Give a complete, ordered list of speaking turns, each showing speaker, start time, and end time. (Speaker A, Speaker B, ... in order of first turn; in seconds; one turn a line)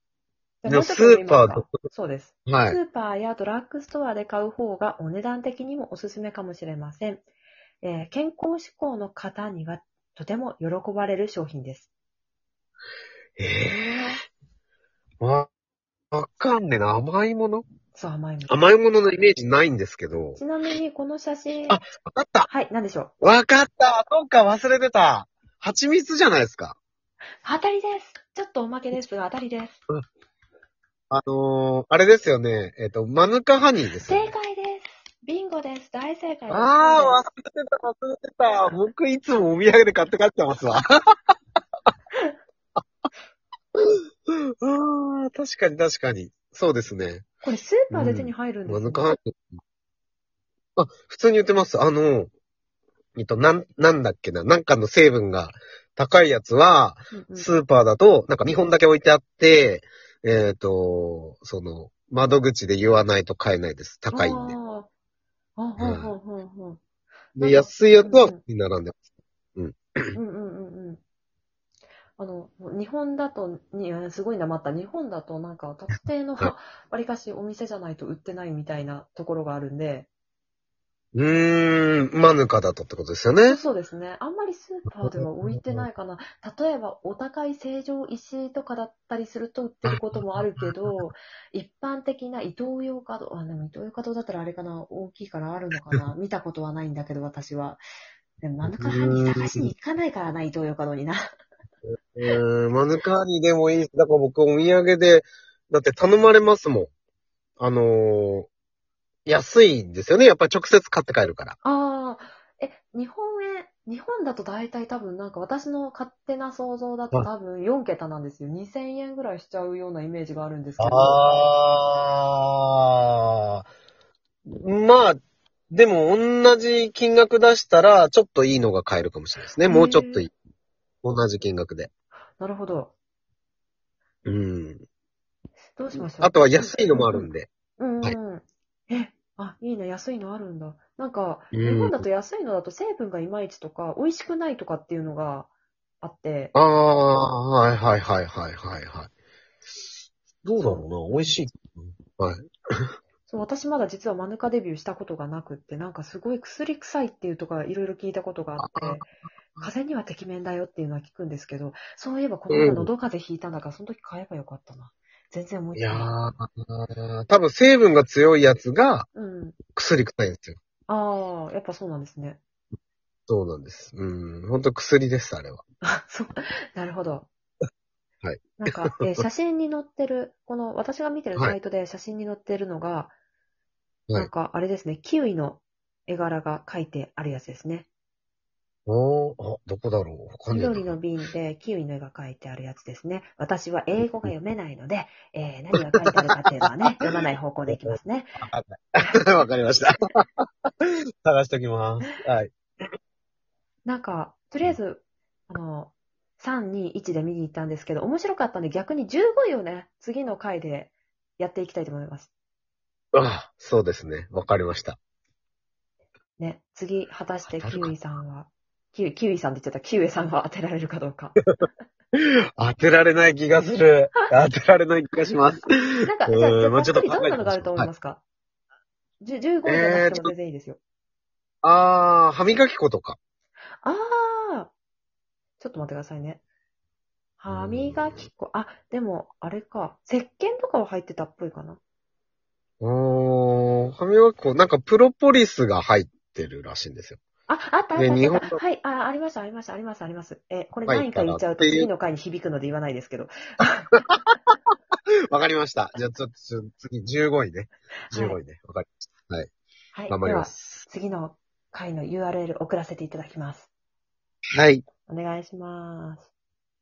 Speaker A: 0.6-7.2
Speaker B: 0.7-1.7
Speaker B: 2.5-2.8
Speaker A: 7.8-11.9
Speaker B: 13.4-14.1
Speaker B: 15.2-15.5
Speaker B: 16.1-17.6
Speaker A: 17.9-18.7
Speaker B: 18.5-20.4
Speaker A: 20.4-21.8
Speaker B: 21.7-22.5
Speaker A: 22.5-23.1
Speaker B: 23.2-26.8
Speaker A: 27.4-29.8
Speaker B: 31.1-34.3
Speaker A: 34.0-37.2
Speaker B: 36.5-40.8
Speaker B: 43.7-47.2
Speaker A: 47.4-49.1
Speaker B: 47.9-49.5
Speaker B: 50.8-52.3
Speaker B: 53.1-64.5
Speaker A: 57.1-57.5
Speaker A: 64.1-64.9
Speaker A: 65.6-66.8
Speaker B: 65.8-66.1
Speaker B: 67.3-69.0
Speaker A: 67.4-68.4
Speaker B: 69.5-70.2
Speaker A: 70.1-71.0
Speaker A: 72.2-80.1
Speaker B: 81.1-83.6
Speaker A: 83.5-97.8
Speaker B: 85.0-85.8
Speaker B: 89.8-90.9
Speaker A: 98.4-101.3
Speaker B: 98.6-99.7
Speaker B: 102.1-106.9
Speaker B: 107.6-108.5
Speaker B: 109.2-111.6
Speaker A: 111.6-121.2
Speaker B: 120.8-123.7
Speaker B: 124.5-125.2
Speaker B: 125.7-130.3
Speaker A: 129.7-130.3
Speaker B: 131.0-131.9
Speaker A: 132.4-132.9
Speaker B: 134.2-134.8
Speaker A: 135.8-137.2
Speaker B: 136.0-137.5
Speaker A: 137.8-145.5
Speaker B: 141.5-142.1
Speaker A: 146.0-146.5
Speaker B: 146.5-149.1
Speaker B: 150.4-152.9
Speaker A: 150.6-151.4
Speaker A: 153.3-159.1
Speaker B: 158.6-159.0
Speaker A: 159.6-166.1
Speaker B: 162.5-162.9
Speaker B: 165.7-169.1
Speaker A: 169.1-169.6
Speaker B: 169.7-170.6
Speaker A: 170.9-172.4
Speaker B: 173.3-175.6
Speaker A: 175.8-177.3
Speaker B: 178.2-178.6
Speaker A: 178.6-183.1
Speaker A: 184.1-187.9
Speaker B: 188.9-191.0
Speaker A: 190.5-198.4
Speaker B: 195.7-196.3
Speaker B: 197.7-202.9
Speaker A: 203.8-212.3
Speaker B: 213.1-215.0
Speaker A: 216.4-221.4
Speaker B: 217.6-217.9
Speaker B: 222.2-225.7
Speaker A: 226.0-228.2
Speaker B: 226.3-227.9
Speaker A: 229.2-230.8
Speaker B: 229.7-230.3
Speaker B: 231.6-233.2
Speaker A: 233.8-234.7
Speaker A: 235.6-236.4
Speaker A: 237.4-241.8
Speaker B: 237.5-238.3
Speaker B: 242.8-247.2
Speaker A: 247.5-254.0
Speaker B: 247.9-248.6
Speaker B: 250.9-251.9
Speaker B: 255.3-259.5
Speaker A: 258.1-258.4
Speaker A: 259.9-263.7
Speaker B: 260.1-260.8
Speaker B: 264.5-264.8
Speaker A: 265.1-266.3